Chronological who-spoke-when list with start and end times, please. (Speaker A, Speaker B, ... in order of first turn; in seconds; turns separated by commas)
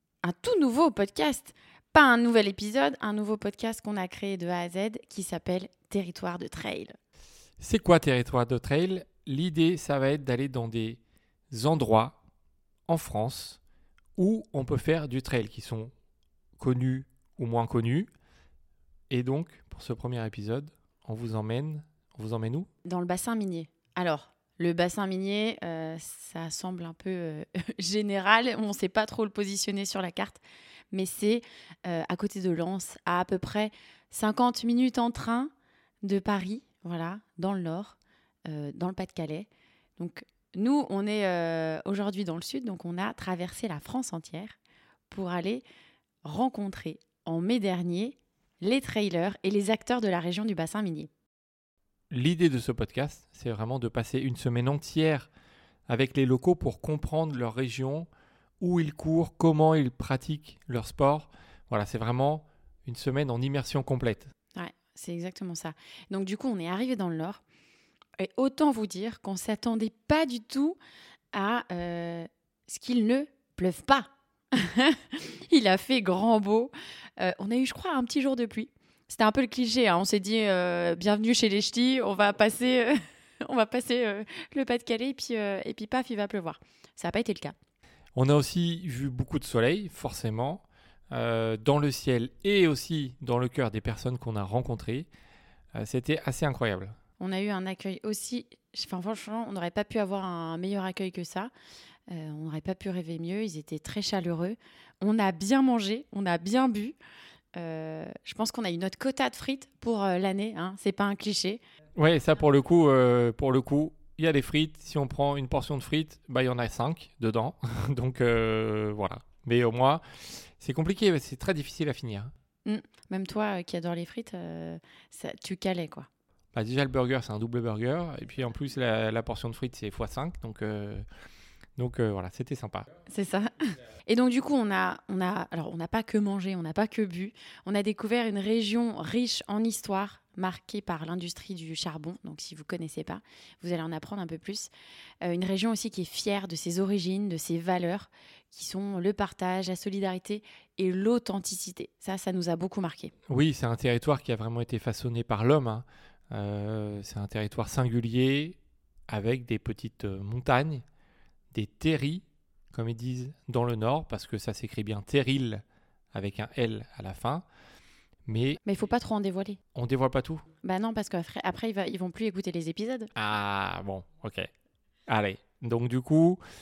Speaker A: 0.2-7.0, Speaker B: 7.6-11.0, Speaker B: 11.5-12.2, Speaker B: 12.9-13.6, Speaker B: 14.2-15.9, Speaker B: 16.6-18.1, Speaker B: 19.1-22.7, Speaker A: 22.9-30.4, Speaker A: 30.9-35.5, Speaker A: 36.0-44.6, Speaker A: 45.1-45.6, Speaker A: 46.2-51.1, Speaker B: 52.1-55.3, Speaker B: 55.9-58.1, Speaker B: 58.6-64.3, Speaker A: 64.5-67.4, Speaker A: 68.2-70.8, Speaker A: 71.3-87.5, Speaker B: 88.2-95.1, Speaker B: 95.8-97.0, Speaker A: 97.2-101.5, Speaker A: 102.1-107.0, Speaker A: 107.6-111.6, Speaker B: 112.0-122.3, Speaker A: 122.7-126.1, Speaker B: 126.5-131.1, Speaker B: 131.8-132.9, Speaker A: 133.1-144.7, Speaker A: 145.2-153.1, Speaker B: 153.3-158.6, Speaker B: 159.1-160.8, Speaker B: 161.5-167.4, Speaker B: 168.3-168.6, Speaker A: 168.7-169.6, Speaker B: 169.8-170.4, Speaker A: 170.6-173.1, Speaker B: 173.2-174.5, Speaker B: 175.1-176.4